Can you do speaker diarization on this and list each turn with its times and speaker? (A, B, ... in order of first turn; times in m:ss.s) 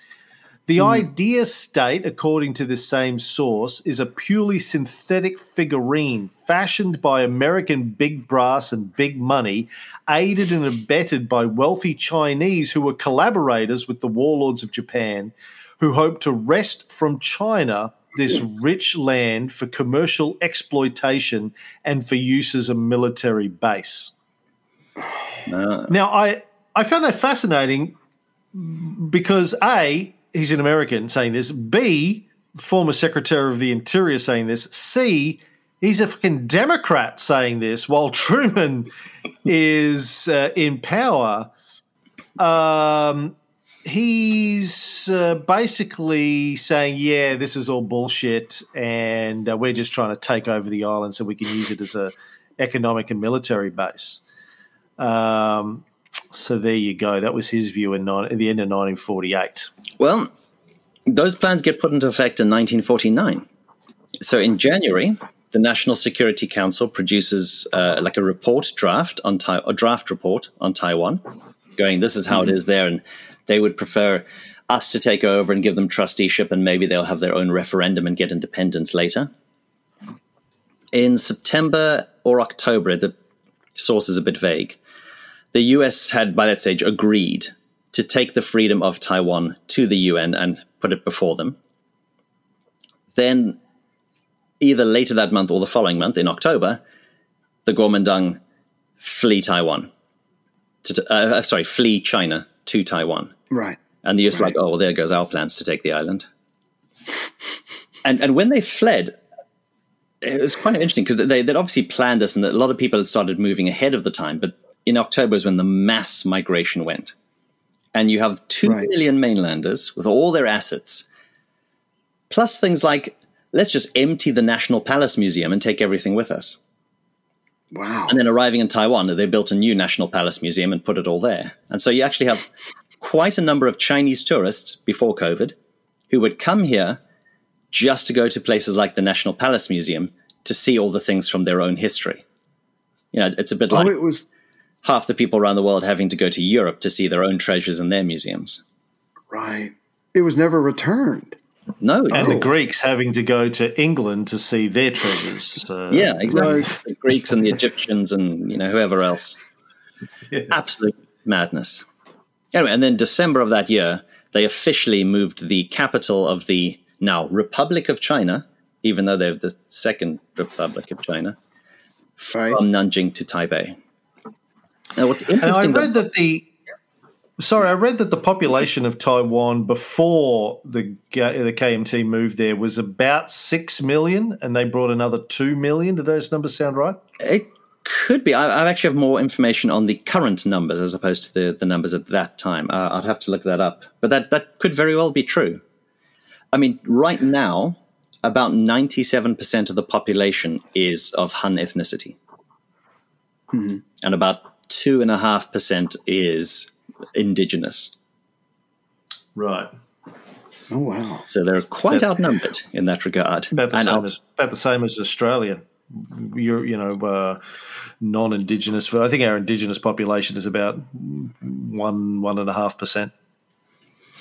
0:00.7-0:24.1 A
0:25.5-0:25.9 B
0:25.9-0:27.9 A
0:28.5-0:38.9 A
0:39.4-0:41.5 A
0:42.4-0:54.2 A
0:55.0-0:59.7 A
1:00.0-1:00.3 B
1:01.1-1:03.4 B
1:04.2-1:11.2 B
1:11.8-1:19.3 B
1:20.9-1:23.1 B
1:23.8-1:24.8 B
1:25.5-1:31.6 B
1:33.1-1:33.6 B
1:34.6-1:36.8 B
1:37.6-1:38.4 B
1:39.0-1:39.9 B
1:40.8-1:43.3 B
1:43.5-1:43.8 C
1:44.0-1:46.2 B
1:48.0-1:49.1 B
1:50.2-1:57.1 B
1:57.9-2:01.0 B
2:02.3-2:06.6 B
2:07.7-2:08.2 C
2:08.1-2:12.5 B
2:13.0-2:15.5 B
2:16.1-2:17.0 B
2:17.7-2:22.2 B
2:23.1-2:23.9 B
2:23.7-2:24.2 C
2:24.8-2:28.6 B
2:29.3-2:31.4 C
2:31.8-2:32.5 B
2:32.1-2:36.7 A
2:32.1-2:32.4 C
2:35.9-2:39.4 B
2:36.3-2:36.7 C
2:40.5-2:41.8 B
2:42.5-2:51.4 B
2:52.2-2:53.7 B
2:52.3-2:52.6 C
2:55.0-2:55.9 B
2:55.4-2:56.5 A
2:57.4-3:07.0 A
3:07.2-3:15.6 B
3:16.5-3:22.2 B
3:23.5-3:23.8 C
3:24.0-3:27.9 B
3:29.3-3:29.7 A
3:30.7-3:31.2 C
3:31.3-3:34.1 B
3:33.5-3:37.4 A
3:38.0-3:43.1 A